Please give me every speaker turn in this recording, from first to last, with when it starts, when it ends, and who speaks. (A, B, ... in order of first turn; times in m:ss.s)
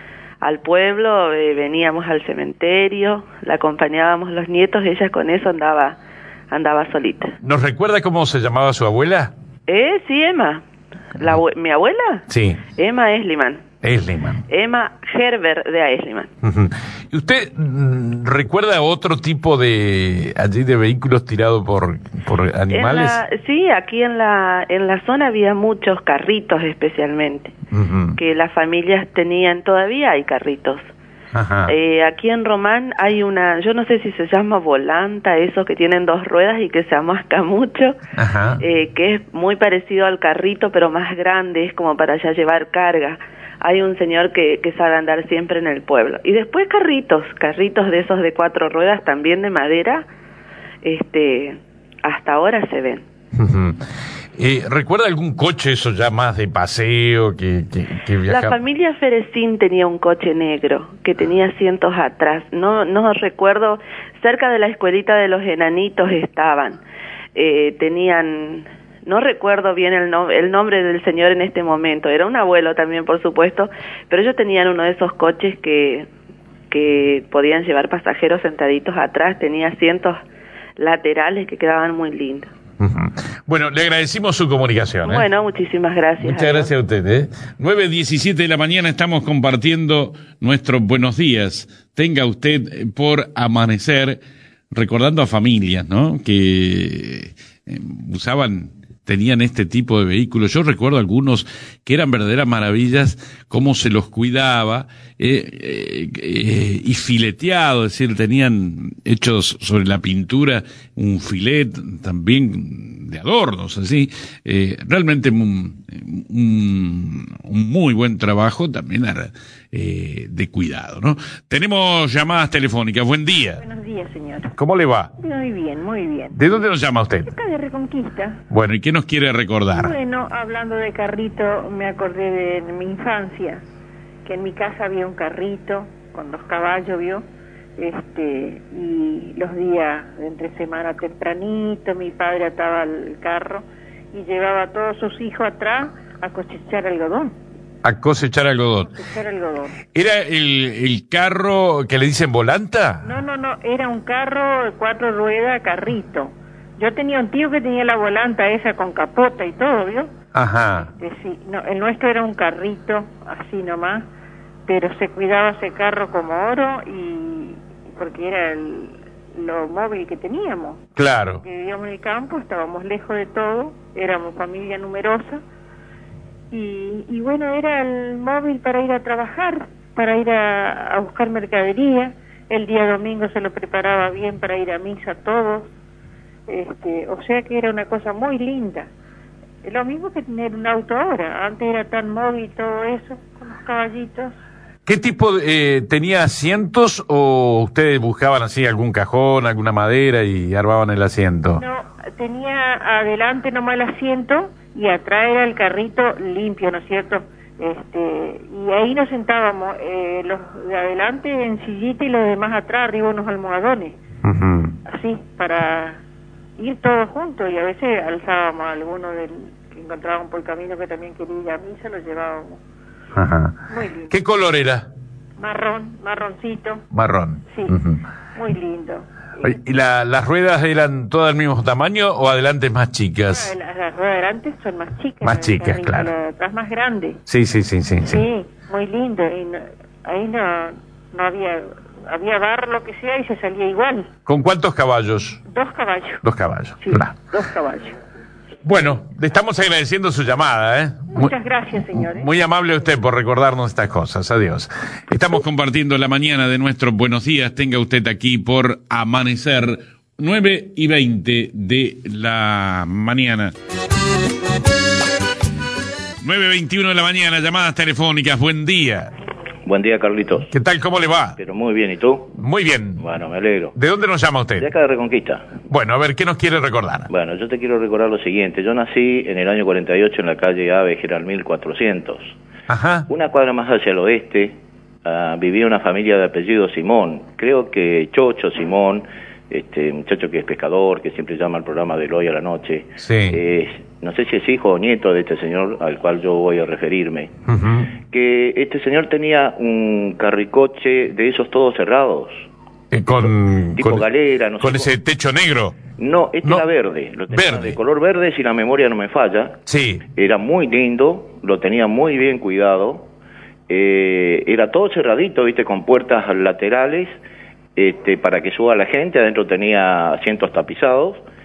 0:00.4-0:06.0 A
0:06.5-0:07.4 A
0:07.4-0:09.3 B
0:09.7-0:10.6 A
0:11.2-0:13.6 A
0:12.3-0:12.6 B
0:13.8-0:14.4 B
0:14.5-0:16.3 A
0:16.4-0:23.2 B
0:22.7-0:27.5 A
0:27.7-0:28.2 B
0:28.2-0:30.8 A
0:31.3-0:31.7 B
0:31.7-0:38.0 A
0:38.2-0:38.6 B
0:38.6-0:50.1 A
0:50.8-0:53.0 A
0:53.4-0:53.8 B
0:54.4-0:58.6 B
0:58.3-1:06.8 A
1:07.4-1:16.1 A
1:16.7-1:20.2 A
1:20.8-1:22.5 A
1:22.8-1:25.2 B
1:25.0-1:26.7 A
1:26.2-1:34.2 B
1:34.7-2:03.6 B
2:03.6-2:04.5 C
2:04.6-2:05.1 B
2:05.2-2:06.4 C
2:06.3-2:07.3 B
2:07.2-2:08.4 C
2:08.5-2:10.0 B
2:09.7-2:13.6 C
2:14.2-2:17.2 C
2:17.8-2:27.4 C
2:27.8-2:28.9 B
2:28.8-2:29.8 C
2:30.0-2:33.1 B
2:33.0-2:40.1 C
2:40.4-2:40.9 B
2:40.9-2:44.1 C
2:44.7-2:50.8 C
2:51.0-2:51.4 B
2:51.4-2:55.4 C
2:56.5-3:05.7 C
3:06.5-3:08.9 C
3:09.6-3:14.3 C
3:14.9-3:21.6 B
3:21.6-3:34.0 C
3:34.2-3:34.8 B
3:34.9-3:36.0 C
3:36.6-3:42.6 C
3:43.2-3:43.6 B
3:43.7-3:44.1 C
3:44.1-3:44.9 B
3:45.4-3:46.8 C
3:46.9-3:48.0 B
3:47.5-3:47.8 C
3:48.4-3:49.6 C
3:49.4-3:53.5 B
3:53.3-3:57.2 C
3:55.2-3:56.1 B
3:57.3-3:58.2 B
3:58.0-4:04.1 C
4:04.3-4:05.4 B
4:05.5-4:06.2 C
4:06.2-4:07.2 B
4:06.8-4:08.0 C
4:08.6-4:11.3 B
4:11.1-4:12.3 C
4:11.9-4:23.5 B
4:26.2-4:29.1 B
4:29.6-4:30.5 D
4:30.5-4:31.4 B
4:31.4-4:32.3 D
4:32.4-4:33.0 B
4:33.0-4:33.7 D
4:33.7-4:34.7 B
4:34.6-4:35.5 D
4:35.7-4:37.1 B
4:37.1-4:42.4 D
4:42.7-4:43.1 B
4:43.1-4:57.3 D
4:53.0-4:53.4 B
4:57.5-4:57.9 B
4:58.0-5:02.5 D
5:02.9-5:04.0 B
5:03.8-5:04.9 D
5:04.6-5:05.8 B
5:06.0-5:09.6 D
5:07.3-5:07.8 B
5:09.7-5:10.0 B
5:10.2-5:13.1 D
5:13.7-5:17.1 D
5:17.8-5:21.2 D